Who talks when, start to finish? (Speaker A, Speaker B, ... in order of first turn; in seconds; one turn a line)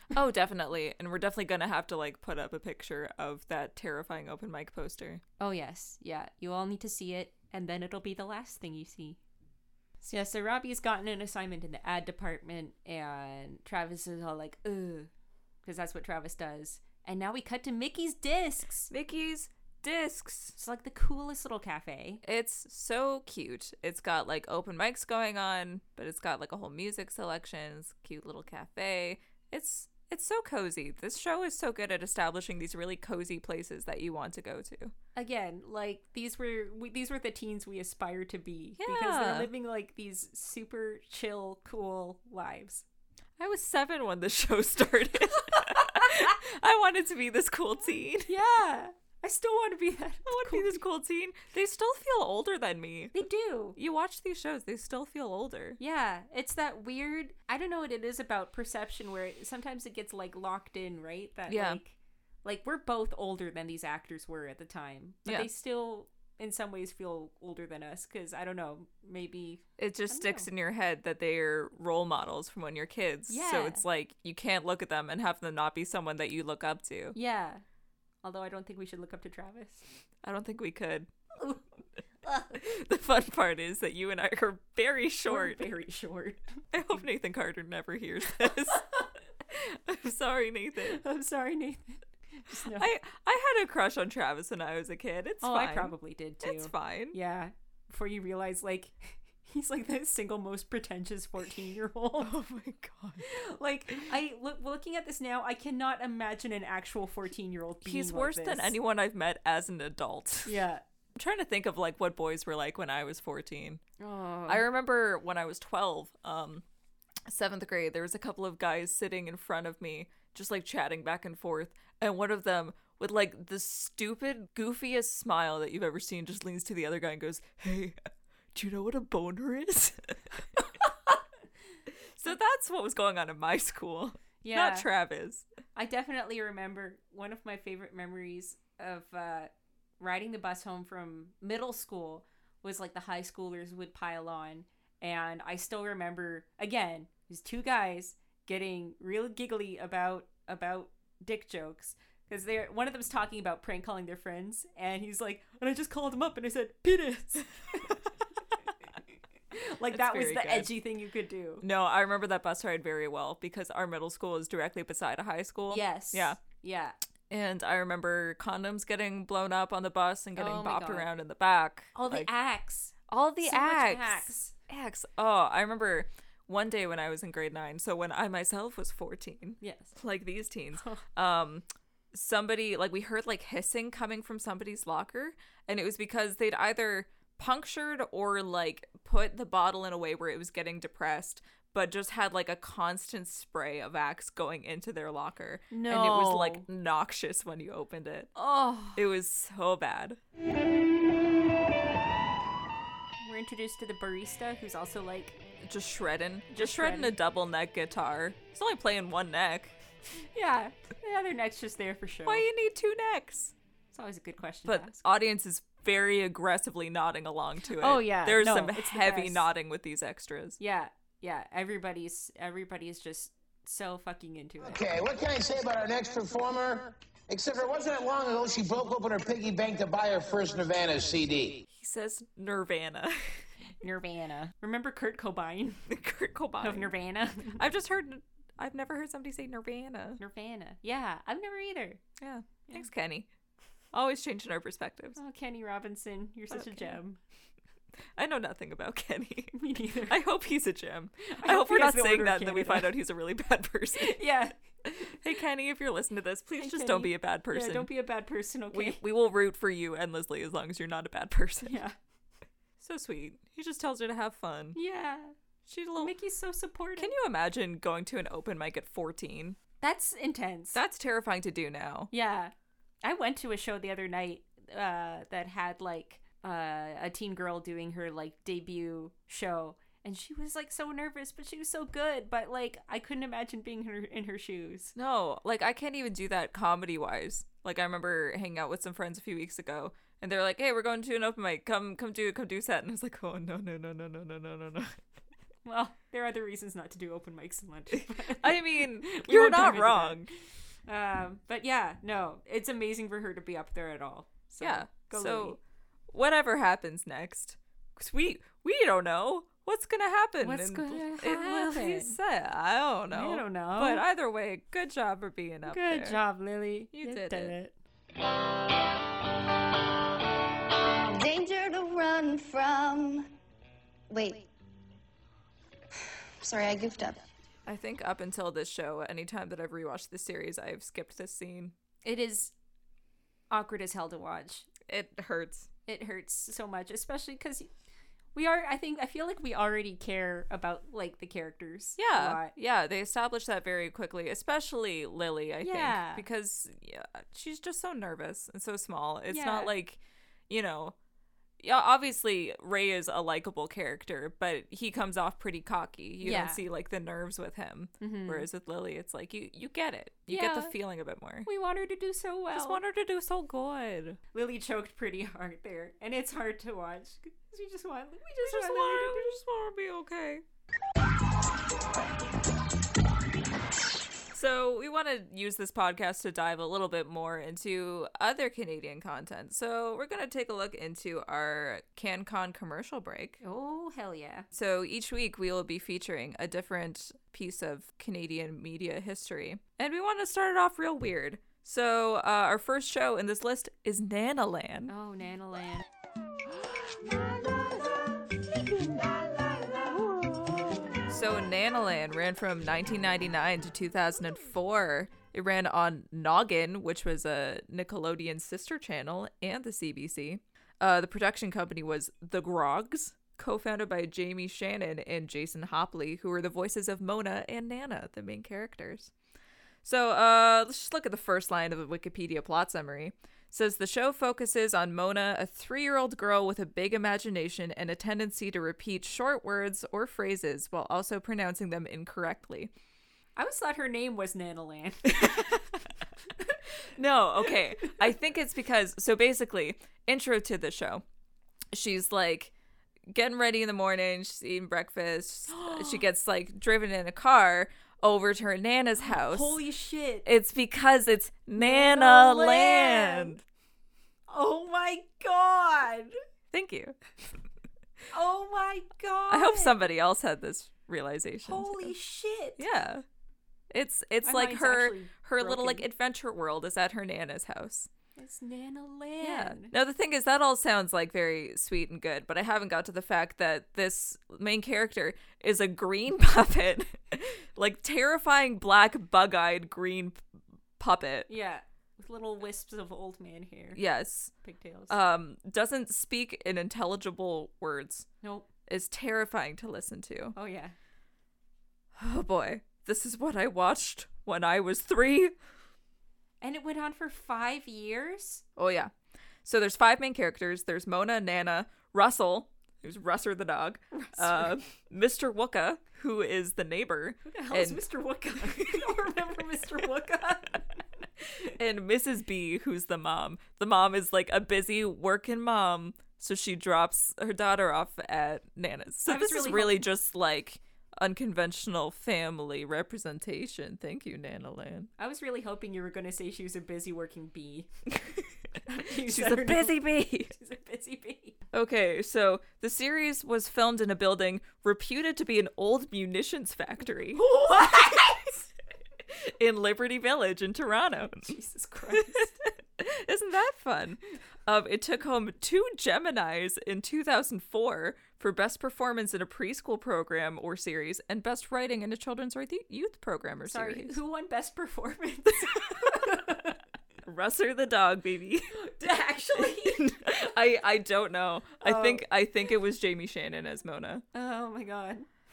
Speaker A: 0.1-5.2
Speaker B: 5.4-9.2
Speaker B: 10.0-15.1
Speaker B: 15.6-18.9
Speaker A: 18.9-20.6
Speaker B: 20.6-22.2
Speaker A: 22.2-34.9
Speaker B: 35.1-42.8
Speaker A: 38.8-39.5
Speaker A: 43.4-48.3
Speaker B: 48.3-50.8
Speaker A: 50.3-53.1
Speaker B: 53.1-53.8
Speaker A: 53.8-55.8
Speaker B: 55.8-70.5
Speaker A: 61.5-61.8
Speaker A: 69.8-77.2
Speaker B: 73.3-73.8
Speaker B: 77.2-77.6
Speaker B: 78.2-79.8
Speaker A: 80.2-81.1
Speaker B: 82.2-82.6
Speaker A: 82.5-85.6
Speaker B: 85.3-86.6
Speaker A: 86.7-88.8
Speaker A: 89.5-91.0
Speaker B: 90.9-92.9
Speaker A: 92.5-97.2
Speaker B: 95.4-102.3
Speaker A: 102.2-103.2
Speaker B: 103.2-108.8
Speaker A: 107.8-110.5
Speaker B: 110.5-110.8
Speaker A: 111.2-113.8
Speaker B: 114.0-114.7
Speaker A: 114.5-116.6
Speaker A: 117.3-128.0
Speaker A: 128.6-130.4
Speaker A: 132.2-135.4
Speaker B: 134.4-134.9
Speaker B: 135.8-158.0
Speaker B: 159.5-161.6
Speaker A: 159.9-160.7
Speaker A: 161.6-166.4
Speaker B: 165.7-167.0
Speaker A: 167.3-172.3
Speaker B: 170.4-171.1
Speaker B: 171.9-174.5
Speaker A: 173.1-200.2
Speaker B: 179.6-179.9
Speaker B: 180.7-181.0
Speaker B: 195.7-196.7
Speaker B: 198.4-199.0
Speaker B: 203.2-205.4
Speaker A: 205.6-209.7
Speaker B: 206.5-207.1
Speaker B: 210.3-212.5
Speaker A: 212.2-213.5
Speaker B: 213.9-215.0
Speaker A: 214.7-220.6
Speaker B: 217.8-219.5
Speaker B: 220.6-224.8
Speaker C: 224.6-231.6
Speaker A: 231.7-233.5
Speaker B: 233.8-235.8
Speaker A: 235.9-236.9
Speaker B: 236.6-237.7
Speaker A: 237.6-240.2
Speaker B: 240.2-242.0
Speaker A: 242.2-243.3
Speaker A: 243.9-245.2
Speaker B: 245.2-247.2
Speaker A: 246.5-247.0
Speaker A: 248.2-254.2
Speaker B: 249.5-250.2
Speaker B: 251.3-252.9
Speaker B: 254.0-254.5
Speaker A: 254.9-257.9
Speaker B: 256.6-259.0
Speaker A: 258.7-261.8
Speaker B: 261.6-261.9
Speaker A: 262.8-264.8
Speaker B: 264.8-265.4
Speaker A: 265.7-266.1
Speaker B: 266.0-267.1
Speaker A: 267.0-269.6
Speaker B: 269.8-270.8
Speaker A: 270.7-272.1
Speaker B: 272.1-285.0
Speaker A: 285.0-295.0
Speaker B: 295.7-300.3
Speaker A: 298.3-300.3
Speaker B: 300.9-305.6
Speaker A: 304.6-305.6
Speaker A: 306.1-316.2
Speaker B: 310.4-312.2
Speaker B: 313.1-314.1
Speaker B: 315.7-317.7
Speaker A: 316.9-317.5
Speaker D: 321.0-323.3
Speaker D: 324.1-324.5
Speaker D: 326.4-327.3
Speaker A: 327.7-331.7
Speaker B: 332.0-332.5
Speaker B: 333.5-334.7
Speaker A: 334.9-335.7
Speaker B: 335.9-337.7
Speaker B: 338.4-342.5
Speaker A: 342.0-350.9
Speaker B: 345.6-346.2
Speaker B: 349.3-349.7
Speaker A: 351.6-361.5
Speaker B: 356.2-356.6
Speaker B: 358.0-358.5
Speaker B: 360.3-360.7
Speaker B: 361.4-362.8
Speaker A: 362.5-364.2
Speaker B: 364.3-369.4
Speaker A: 368.4-370.4
Speaker A: 374.3-383.4
Speaker B: 383.4-384.5
Speaker A: 384.5-394.9
Speaker B: 394.9-395.9
Speaker B: 400.1-400.4
Speaker A: 401.1-419.1
Speaker A: 419.8-432.7
Speaker B: 433.4-435.6
Speaker A: 435.1-435.8
Speaker A: 437.0-441.0
Speaker A: 441.7-442.5
Speaker A: 443.1-449.6
Speaker B: 445.5-446.0
Speaker B: 449.0-450.3
Speaker A: 450.2-453.4
Speaker B: 451.6-453.3
Speaker B: 454.3-456.1
Speaker A: 456.5-457.0
Speaker B: 458.1-459.8
Speaker A: 459.3-461.9
Speaker B: 461.5-462.6
Speaker A: 462.6-463.0
Speaker A: 463.7-467.9
Speaker B: 464.2-465.9
Speaker B: 468.2-469.7
Speaker A: 469.2-480.2
Speaker A: 480.8-481.3
Speaker B: 481.3-483.8
Speaker A: 483.8-484.3
Speaker B: 484.4-484.9
Speaker A: 484.9-488.1
Speaker B: 488.2-488.5
Speaker A: 488.7-490.4
Speaker B: 490.4-490.8
Speaker A: 492.0-495.3
Speaker B: 496.4-498.4
Speaker A: 498.6-498.9
Speaker A: 499.4-507.8
Speaker B: 503.9-504.6
Speaker B: 507.3-510.8
Speaker A: 508.4-508.9
Speaker A: 511.5-524.9
Speaker B: 519.1-519.9
Speaker B: 525.0-527.7
Speaker B: 528.7-531.4
Speaker A: 529.0-530.3
Speaker A: 531.5-537.2
Speaker B: 537.1-538.4
Speaker A: 539.1-541.4
Speaker B: 541.1-542.3
Speaker A: 541.9-554.0
Speaker B: 553.5-556.6
Speaker A: 555.5-556.0
Speaker A: 557.0-558.6
Speaker B: 558.6-560.2
Speaker A: 559.4-564.0
Speaker B: 561.6-562.0
Speaker B: 564.1-565.1